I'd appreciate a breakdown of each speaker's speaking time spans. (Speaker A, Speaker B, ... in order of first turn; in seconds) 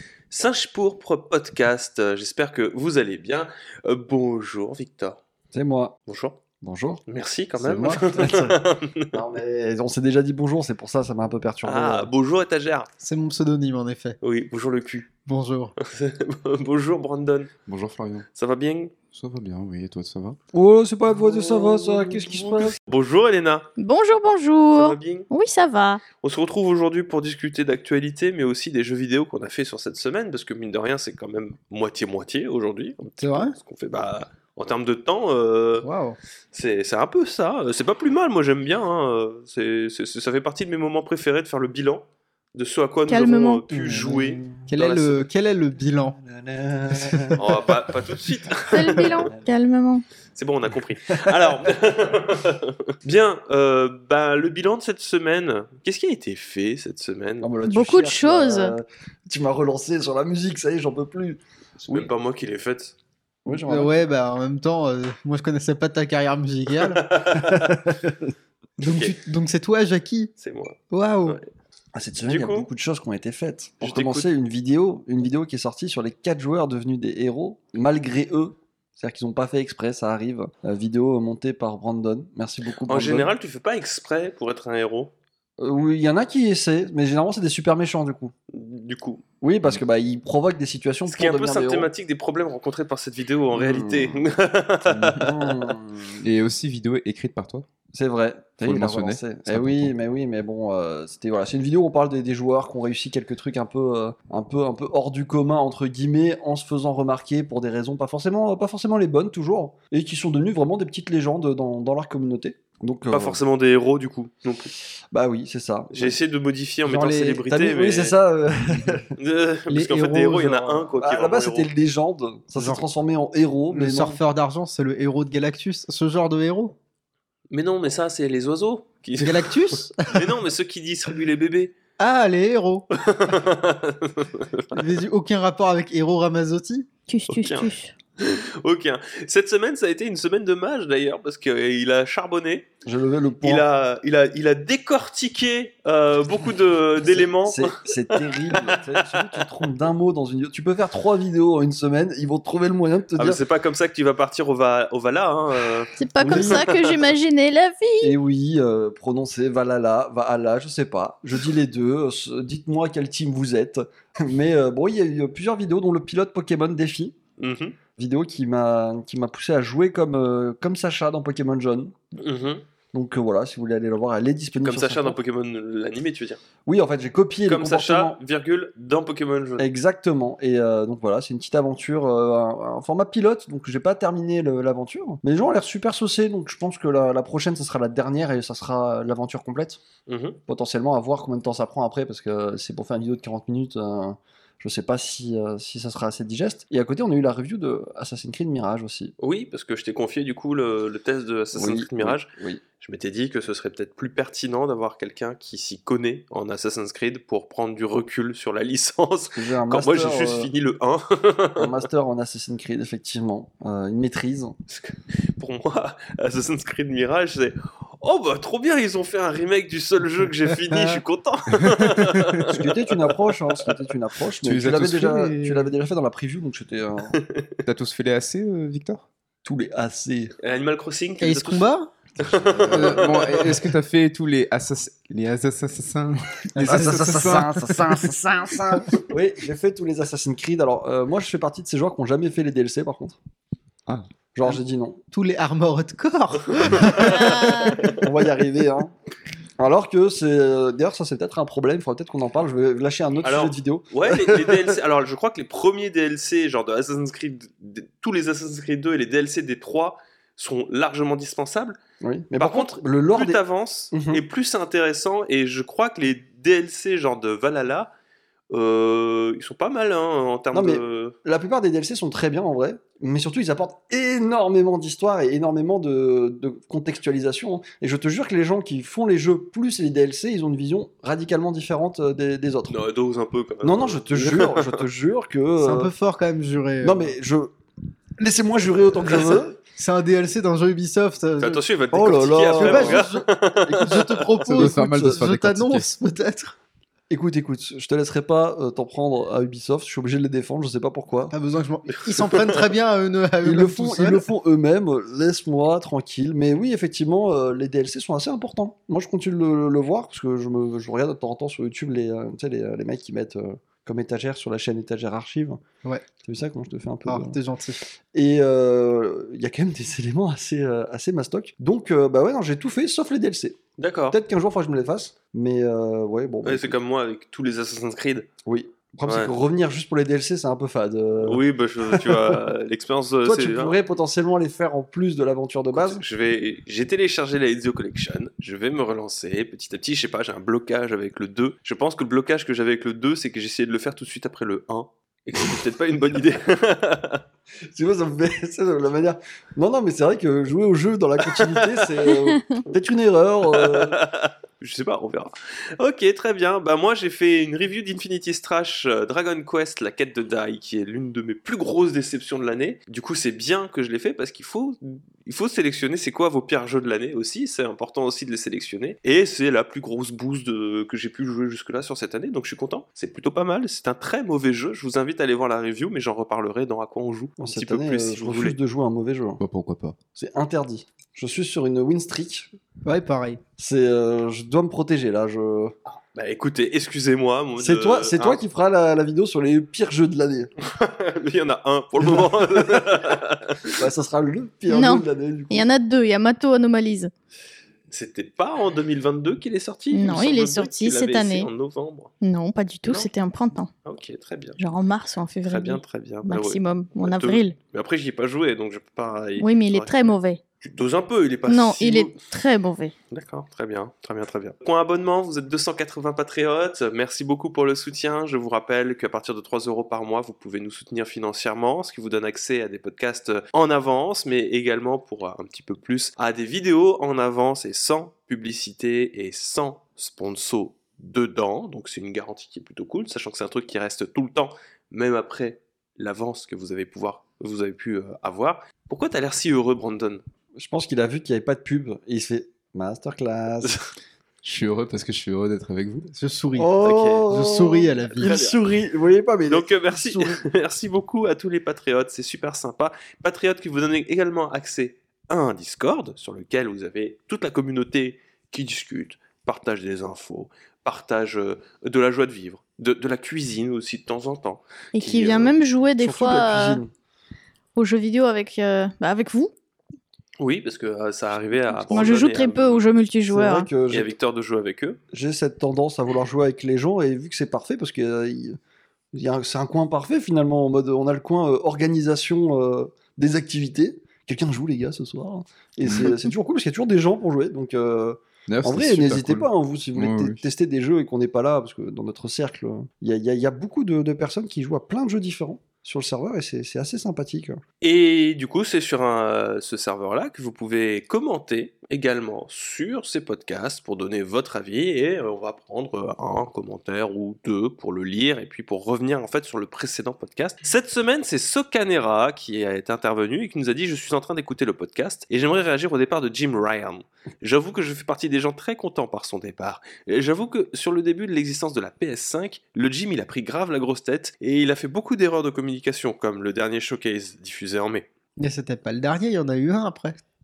Speaker A: 0.3-5.2, 6.1-6.4, 7.1-9.1, 11.6-12.9, 14.2-15.1, 15.8-17.5, 18.3-18.9, 21.1-23.7, 24.7-25.3, 26.2-35.9, 36.5-44.4, 47.4-49.3, 50.3-57.5, 61.8-63.0, 66.8-67.8, 68.8-69.2, 70.4-71.4, 72.2-72.7, 73.8-74.3, 82.9-85.1, 88.5-89.2, 91.1-95.7, 113.1-114.7, 115.9-118.2, 119.2-121.7, 127.5-131.8, 132.9-134.8, 137.3-142.7, 143.4-149.4, 153.2-157.1, 167.4-167.8, 172.2-172.6, 174.6-176.4, 177.5-179.6, 190.1-190.4, 199.2-202.3, 202.8-211.8, 214.7-223.7, 227.1-227.5, 230.4-233.5, 246.6-248.0, 253.2-261.8, 262.4-267.9, 268.5-271.1, 282.7-284.8, 291.4-294.3, 323.8-324.2, 326.4-328.3, 329.1-329.3, 331.2-333.8, 335.7-347.2, 351.2-351.9, 353.5-378.6, 385.9-388.4, 390.6-393.8, 397.9-402.1, 402.8-403.1, 403.8-404.6, 405.5-412.1, 413.1-440.2, 443.6-443.9, 446.8-447.3, 448.1-448.6, 449.5-465.6, 470.4-472.9, 473.9-475.0, 497.8-528.1
Speaker B: 5.5-6.0, 6.6-7.0, 7.6-8.6, 9.1-12.1, 20.5-22.8, 43.7-45.2, 46.1-49.5, 51.1-51.7, 57.4-62.1, 63.5-63.9, 67.5-68.3, 71.9-83.3, 85.6-88.3, 89.4-91.9, 93.5-94.2, 95.1-96.2, 97.9-113.4, 115.1-116.2, 116.8-119.2, 119.8-124.2, 142.8-143.6, 147.0-153.4, 156.2-156.7, 158.0-167.2, 168.0-172.0, 172.9-175.2, 176.7-178.2, 179.6-189.8, 190.5-199.1, 201.5-202.6, 209.3-210.5, 211.6-214.6, 222.5-227.2, 229.4-230.3, 232.2-233.0, 236.6-243.2, 244.3-245.0, 247.2-248.9, 249.6-254.8, 262.0-263.4, 263.9-264.2, 270.5-282.8, 283.6-285.9, 286.8-287.5, 288.2-289.6, 291.9-295.2, 297.1-301.3, 303.4-315.6, 316.2-326.8, 328.4-332.4, 333.2-336.0, 347.7-354.0, 377.4-379.4, 380.1-382.5, 383.6-385.7, 387.6-390.5, 392.0-392.9, 393.8-395.7, 440.6-443.8, 446.5-450.4, 465.9-466.9, 473.3-474.1, 475.1-478.6, 479.1-497.6
Speaker C: 13.0-14.2, 15.2-15.7, 33.2-33.5, 35.8-36.2, 44.7-46.2, 46.9-47.4, 63.5-67.3, 68.8-70.3, 70.9-71.4, 119.7-120.3, 122.5-122.8, 123.7-126.7, 129.2-130.3, 132.0-132.9, 134.7-136.9, 220.7-221.0, 231.2-231.9, 236.6-237.3, 245.1-248.0, 285.6-287.1, 289.8-291.6, 292.6-296.5, 301.3-304.2, 317.1-317.8, 382.8-383.4, 446.1-446.7, 447.3-448.4, 528.4-530.2
Speaker D: 17.7-18.3, 19.1-20.4, 94.9-95.2, 96.2-97.7, 98.6-99.9, 221.6-222.5, 224.4-225.7, 227.7-229.1, 232.7-238.1, 294.5-295.9, 379.4-380.0, 444.4-446.1, 485.8-486.3, 488.5-490.4
Speaker E: 23.8-26.0, 43.1-43.6, 48.7-50.0, 57.7-58.7, 137.1-137.9, 156.0-158.1, 352.3-352.6, 394.7-397.1, 399.9-401.5, 402.2-403.7, 404.6-407.6, 409.4-410.4, 411.5-412.9, 464.9-466.8, 467.7-469.5, 471.9-473.7